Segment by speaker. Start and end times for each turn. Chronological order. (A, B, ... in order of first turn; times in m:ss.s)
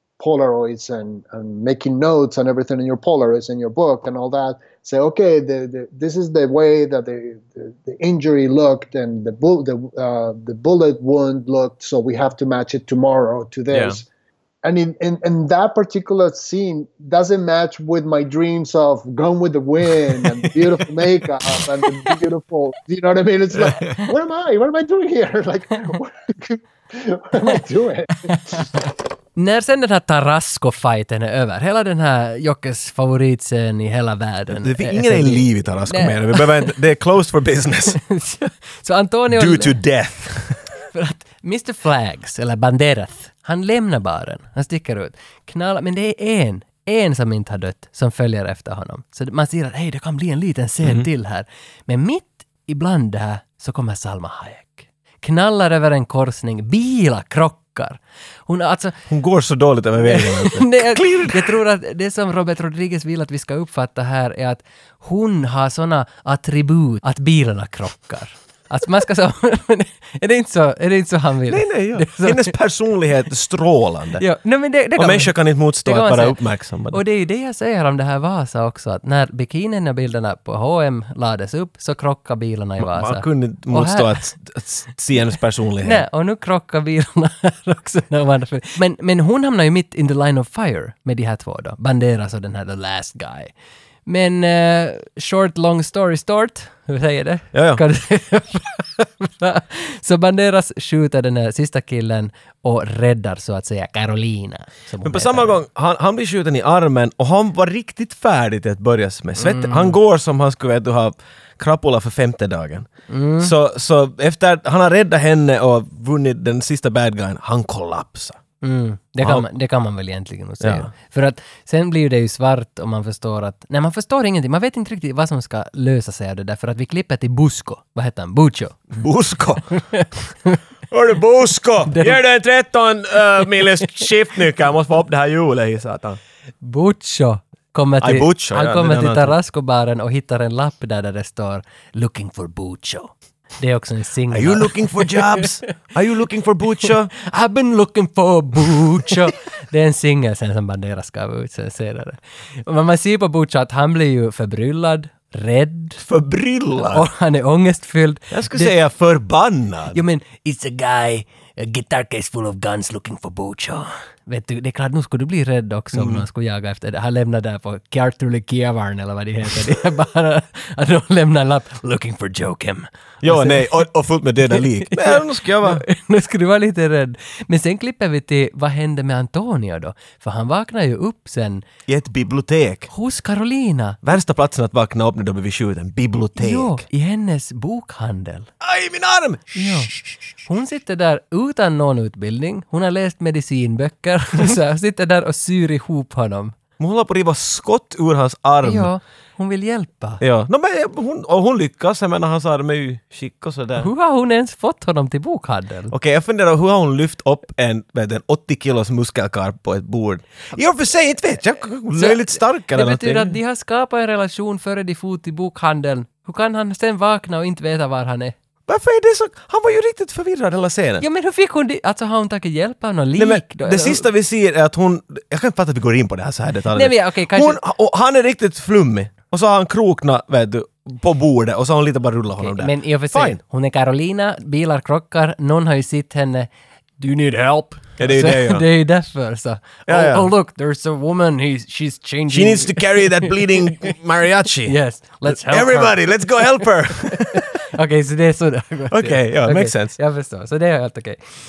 0:00.2-0:14.0 A
0:13.7-0:14.0 B
0:14.6-0:28.6 A
0:20.1-0:20.8 B
0:23.5-0:24.0 B
0:28.3-0:28.6 C
0:29.4-0:36.7 C
0:34.5-0:38.0 B
0:37.9-0:39.8 C
0:39.3-0:40.6 B
0:40.9-0:59.0 C
0:59.1-1:01.6 B
1:00.0-1:12.5 C
1:11.5-1:14.2 B
1:14.2-1:16.4 C
1:15.0-1:17.0 B
1:16.9-1:24.3 C
1:22.8-1:26.0 B
1:25.8-1:33.5 C
1:34.0-1:45.6 C
1:37.5-1:37.8 B
1:45.0-1:52.9 B
1:49.4-1:50.0 C
1:53.1-1:53.5 C
1:53.4-1:58.4 B
1:58.6-2:08.9 C
2:00.6-2:00.9 B
2:08.9-2:09.7 B
2:09.7-2:10.6 C
2:10.9-2:16.2 B
2:11.9-2:12.2 C
2:16.6-2:25.7 C
2:18.0-2:19.3 B
2:24.3-2:27.1 B
2:26.9-2:36.0 C
2:36.0-2:37.0 B
2:36.8-2:38.7 C
2:38.3-2:40.0 B
2:39.9-2:53.8 C
2:45.9-2:46.2 B
2:53.2-2:55.8 B
2:54.5-3:01.6 C
3:01.9-3:02.9 B
3:02.9-3:04.0 C
3:04.0-3:06.8 B
3:06.4-3:08.5 C
3:08.6-3:10.1 B
3:09.5-3:09.9 C
3:10.4-3:16.6 C
3:16.8-3:18.9 B
3:18.6-3:20.2 C
3:20.2-3:23.9 B
3:23.8-3:25.9 C
3:25.9-3:33.4 B
3:31.9-3:38.3 C
3:38.7-3:41.0 B
3:41.0-3:44.1 C
3:43.2-3:53.4 B
3:46.7-3:47.6 C
3:52.4-4:03.9 C
3:58.0-3:58.6 B
3:59.9-4:00.3 B
4:02.3-4:07.5 B
4:04.6-4:11.2 C
4:08.9-4:10.0 B